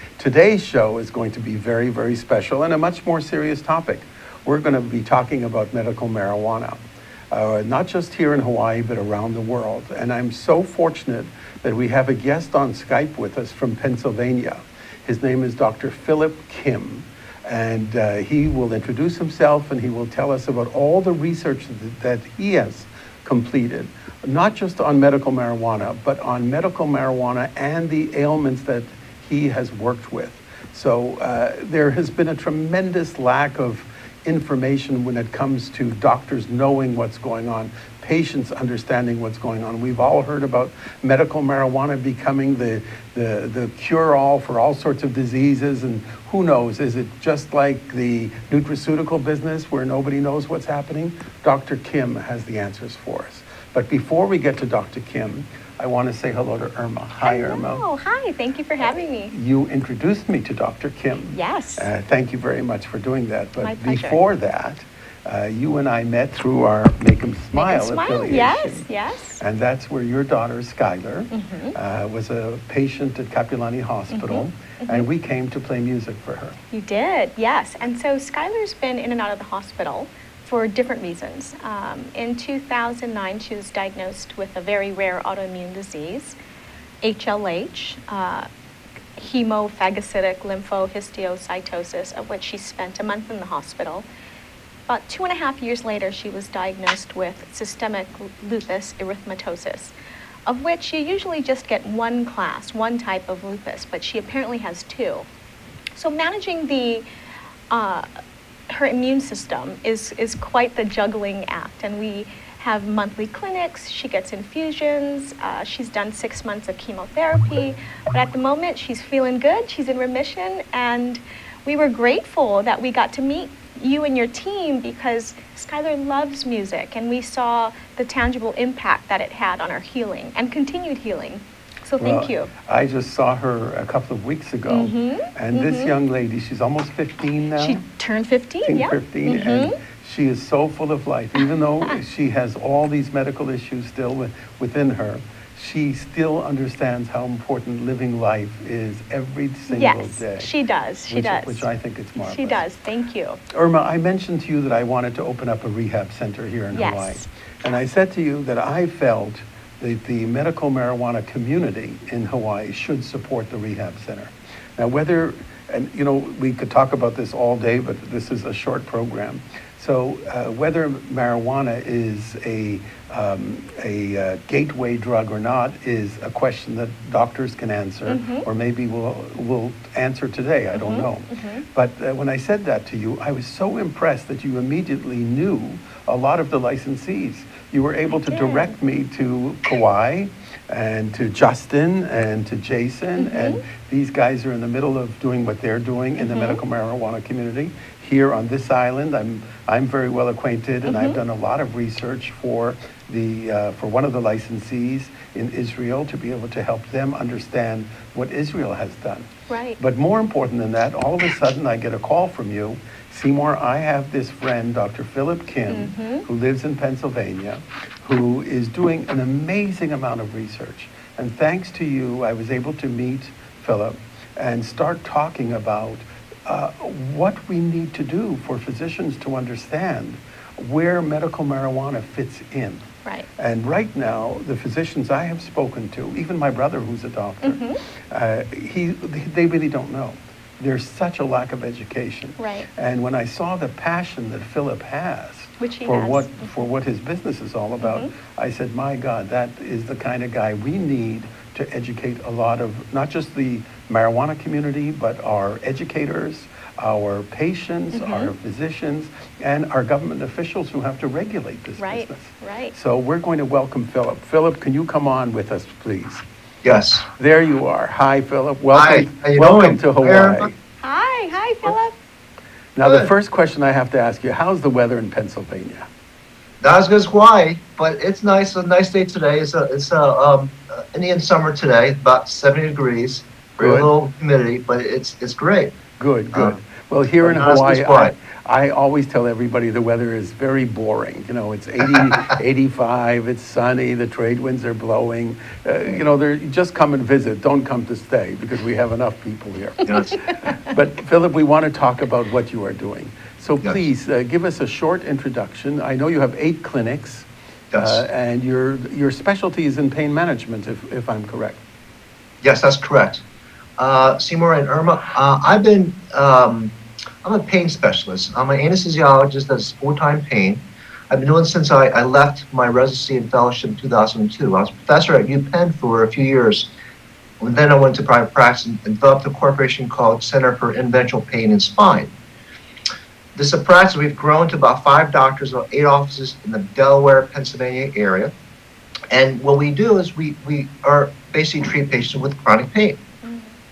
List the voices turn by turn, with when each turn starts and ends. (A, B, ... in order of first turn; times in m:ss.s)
0:00.2-0:57.8 A
0:57.2-0:59.3 B
0:59.3-1:08.8 A
1:01.3-1:01.9 B
1:03.6-1:04.2 B
1:07.6-1:09.4 B
1:09.4-1:16.6 A
1:11.3-1:11.8 B
1:14.1-1:15.0 B
1:16.7-1:26.4 B
1:27.0-1:28.5 B
1:29.2-1:34.1 B
1:34.9-1:39.9 B
1:40.5-1:45.3 B
1:46.0-1:47.0 B
1:47.7-1:48.1 B
1:48.7-2:12.5 B
2:12.0-2:17.8 A
2:14.7-2:15.9 B
2:17.6-2:19.8 B
2:18.6-2:30.5 A
2:29.7-2:31.7 B
2:31.1-2:32.6 A
2:32.2-2:33.4 B
2:33.5-3:52.8 A
2:36.7-2:37.2 B
2:58.1-2:58.5 B
3:00.8-3:01.6 B
3:08.3-3:08.7 B
3:13.2-3:13.6 B
3:16.2-3:16.6 B
3:20.9-3:21.2 B
3:29.5-3:29.8 B
3:35.7-3:36.2 B
3:53.4-3:57.6 A
3:57.4-3:57.8 B
3:58.1-4:26.2 A
4:02.4-4:02.7 B
4:05.6-4:06.5 B
4:07.8-4:08.1 B
4:17.9-4:18.3 B
4:21.8-4:22.7 B
4:26.6-4:27.1 C
4:27.2-4:30.5 A
4:28.7-4:30.5 C
4:30.8-4:32.0 B
4:32.8-4:35.9 A
4:32.8-4:33.1 C
4:36.6-4:45.8 C
4:43.6-4:43.9 A
4:46.0-4:59.9 A
4:47.2-4:48.1 C
4:59.9-5:00.2 C
5:00.7-5:07.3 A
5:07.7-5:08.0 C
5:07.8-5:11.6 A
5:12.4-5:13.2 C
5:13.8-5:26.7 C
5:27.4-5:32.1 C
5:33.4-5:38.3 C
5:39.1-5:43.0 C
5:43.2-5:43.5 B